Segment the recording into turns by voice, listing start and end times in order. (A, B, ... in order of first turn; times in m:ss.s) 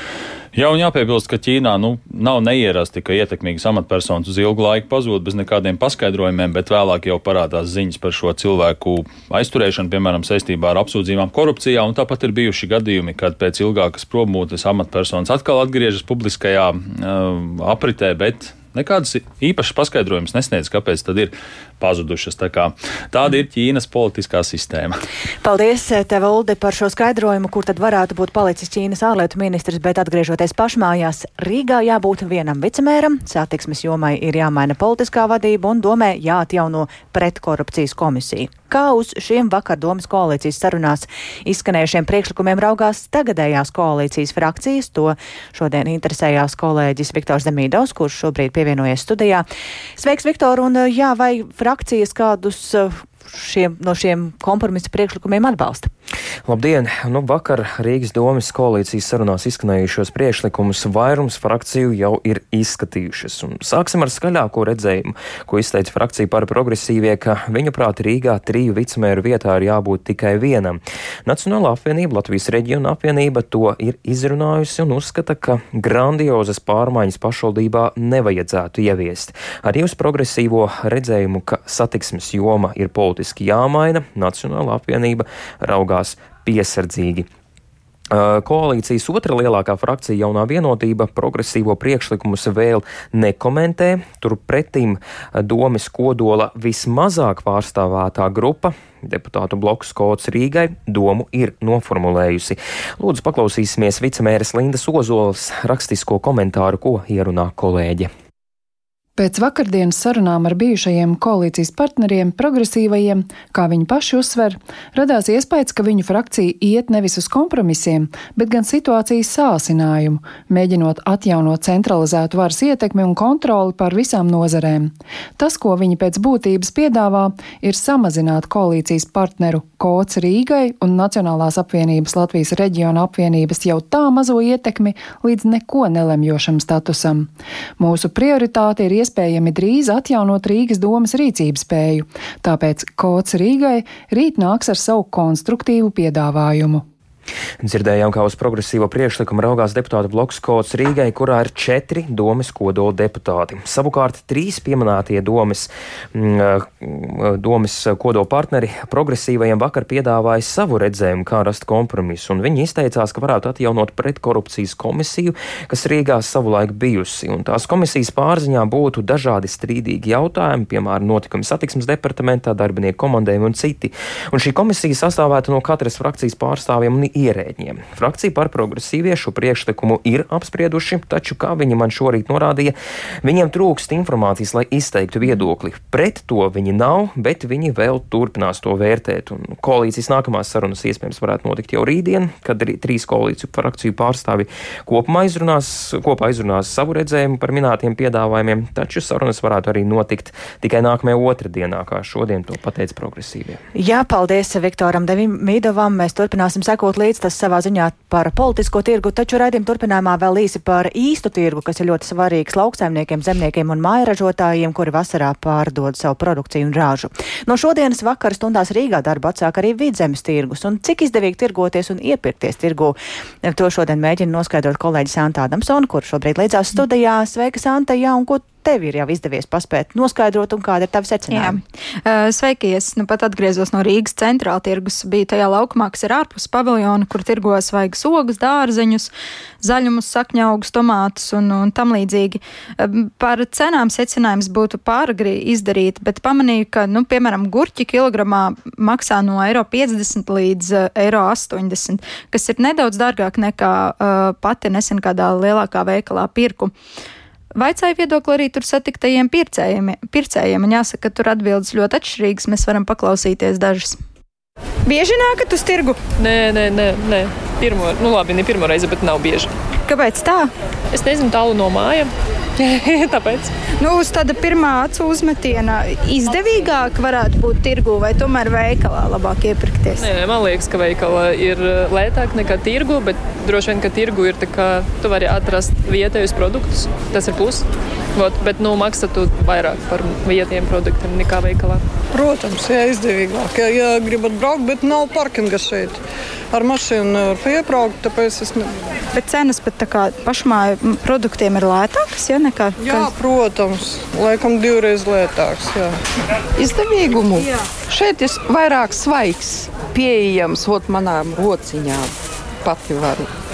0:00.5-0:25.0 A
0:25.4-0:49.4 B
0:50.0-0:55.9 B
0:56.4-1:27.3 C
1:28.1-1:48.1 C
1:49.2-2:26.8 D
2:27.6-3:23.6 C
3:23.7-3:51.6 B
3:51.3-4:16.7 E
4:17.6-4:24.0 E
4:24.8-4:26.0 E
4:26.2-4:29.5 F
4:29.8-4:30.5 E
4:30.9-4:33.5 F
4:33.8-4:40.0 E
4:40.0-4:51.8 F
4:52.1-4:58.9 G
4:59.1-5:03.1 E
5:02.8-5:06.0 G
5:06.6-5:12.1 H
5:12.6-5:13.3 H